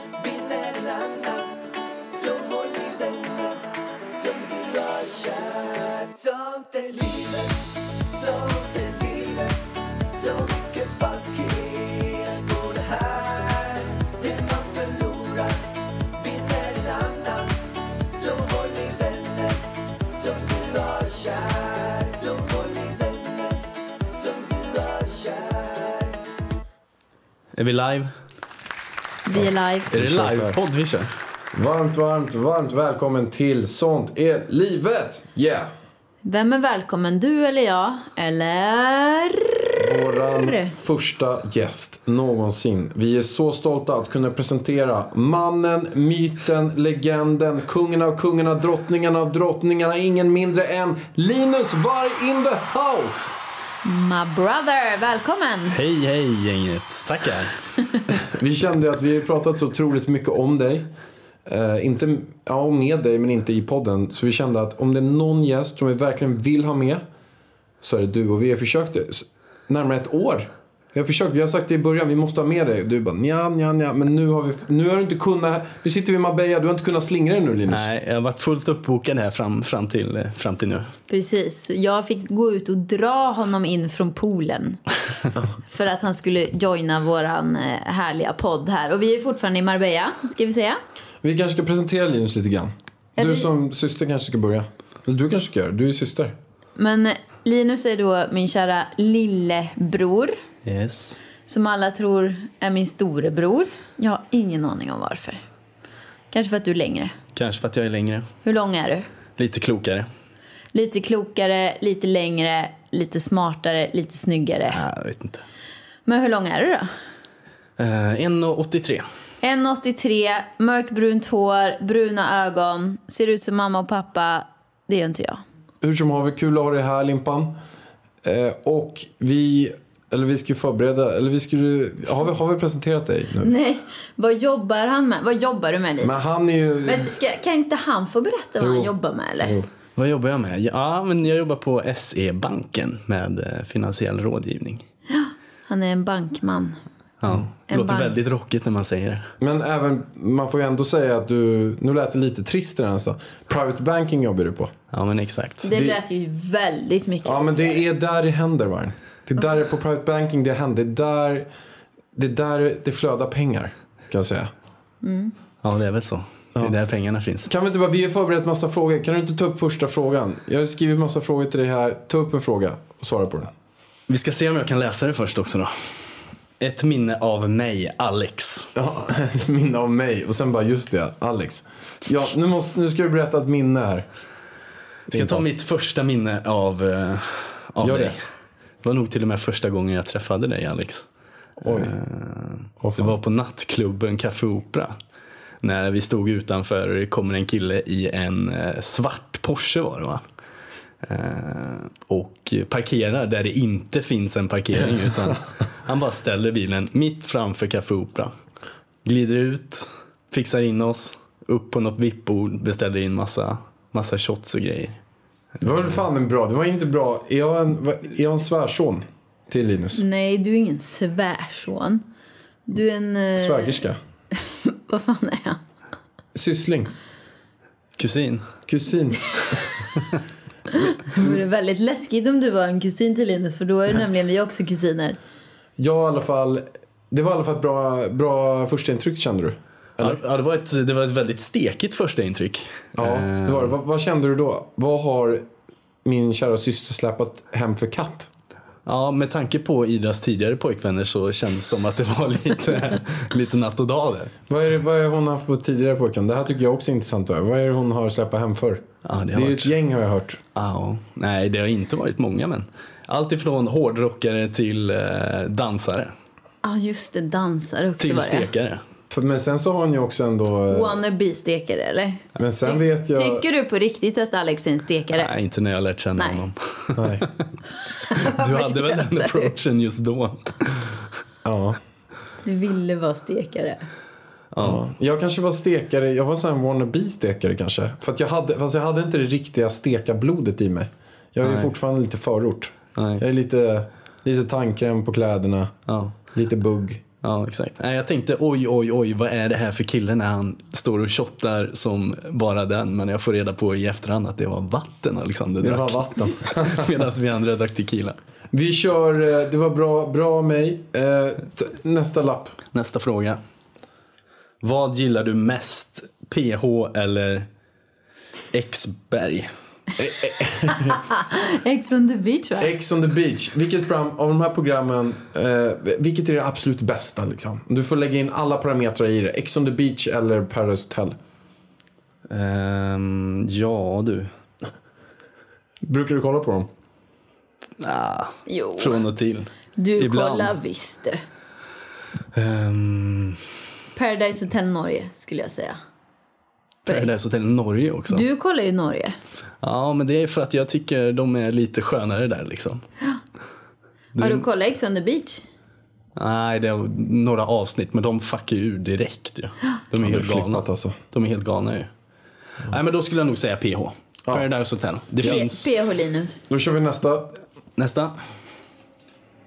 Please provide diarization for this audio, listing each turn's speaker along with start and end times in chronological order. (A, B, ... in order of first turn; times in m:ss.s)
0:00.2-0:26.2 A
0:27.5-0:28.1 B
0:29.3-0:29.9 C
0:29.3-0:30.6 D
0:29.9-0:31.1 B
0:31.5-0:35.7 D
0:36.2-0:40.7 C
0:39.8-0:53.3 D
0:53.8-0:55.8 C
0:55.7-0:57.6 B
0:58.2-1:00.9 D
1:01.4-1:07.0 D
1:07.8-1:17.9 D
1:17.7-1:20.9 B
1:21.1-1:24.8 C
1:25.7-1:30.8 C
1:31.2-1:36.3 D
1:33.2-1:33.5 C
1:36.8-1:40.4 C
1:40.6-1:41.2 B
1:41.5-1:45.4 C
1:46.3-1:47.1 C
1:47.3-1:48.3 B
1:48.4-1:49.1 C
1:49.4-1:50.1 B
1:50.7-1:54.8 C
1:54.7-1:55.4 B
1:56.0-1:56.9 C
1:57.8-1:59.0 B
1:59.4-2:05.4 C
2:05.8-2:07.5 D
2:08.2-2:13.5 D
2:13.4-2:16.2 C
2:16.0-2:17.1 D
2:16.8-2:19.6 C
2:18.6-2:19.7 D
2:20.0-2:24.8 B
2:25.1-2:26.8 C
2:27.2-2:29.3 B
2:27.7-2:28.2 C
2:29.4-2:34.7 D
2:34.9-2:35.7 B
2:35.6-2:37.8 C
2:35.7-2:36.0 D
2:37.2-2:41.5 D
2:42.1-2:44.5 D
2:45.0-2:45.3 C
2:45.6-2:47.5 B
2:47.5-2:53.5 D
2:54.1-2:55.7 B
2:56.6-2:58.7 B
2:58.8-3:04.1 D
3:05.1-3:05.4 D
3:05.1-3:08.2 B
3:07.8-3:08.2 D
3:08.8-3:11.0 B
3:11.6-3:11.9 D
3:11.6-3:14.9 B
3:12.8-3:13.2 D
3:15.6-3:20.2 B
3:21.0-3:28.3 B
3:29.0-3:35.0 B
3:35.6-3:40.0 D
3:40.0-3:42.0 C
3:42.7-3:43.8 C
3:43.4-3:44.0 D
3:44.4-3:45.6 C
3:46.3-3:46.9 D
3:48.0-3:48.4 B
3:48.7-3:49.7 D
3:50.7-3:55.2 C
3:50.7-3:51.4 D
3:55.8-4:00.2 D
4:00.0-4:03.7 B
4:03.0-4:05.5 D
4:06.0-4:08.3 D
4:08.8-4:14.3 B
4:14.5-4:20.4 D
4:19.0-4:19.7 B
4:20.5-4:26.1 B
4:26.6-4:28.5 C
4:28.0-4:28.8 B
4:29.1-4:31.0 D
4:30.7-4:35.3 C
4:32.4-4:33.4 D
4:35.1-4:37.4 B
4:36.2-4:36.4 C
4:37.0-4:37.2 D
4:37.9-4:39.5 C
4:38.1-4:41.0 B
4:41.4-4:41.8 D
4:42.4-4:43.8 C
4:44.5-4:44.8 B
4:44.6-4:55.7 D
4:51.4-4:51.7 B
4:52.9-4:53.2 B
4:55.9-4:56.1 B
4:56.3-4:57.0 D
4:57.2-5:08.2 B
5:05.6-5:06.9 D
5:08.5-5:12.6 D
5:12.7-5:13.4 B
5:14.6-5:17.5 B
5:18.5-5:19.5 B
5:20.0-5:21.0 D
5:20.7-5:22.7 C
5:22.6-5:31.2 D
5:32.3-5:34.3 B
5:35.8-5:36.7 D
5:37.8-5:40.5 B
5:38.5-5:39.0 C
5:39.8-5:41.2 C
5:42.3-5:43.4 B
5:44.0-5:45.8 C
5:46.9-5:48.2 B
5:48.1-5:49.2 C
5:49.6-5:52.8 B
5:54.2-5:54.4 B
5:54.2-5:55.4 C
5:56.2-6:01.9 B
6:00.0-6:01.0 D
6:02.6-6:05.7 B
6:05.2-6:06.5 C
6:06.5-6:07.4 D
6:07.8-6:08.2 B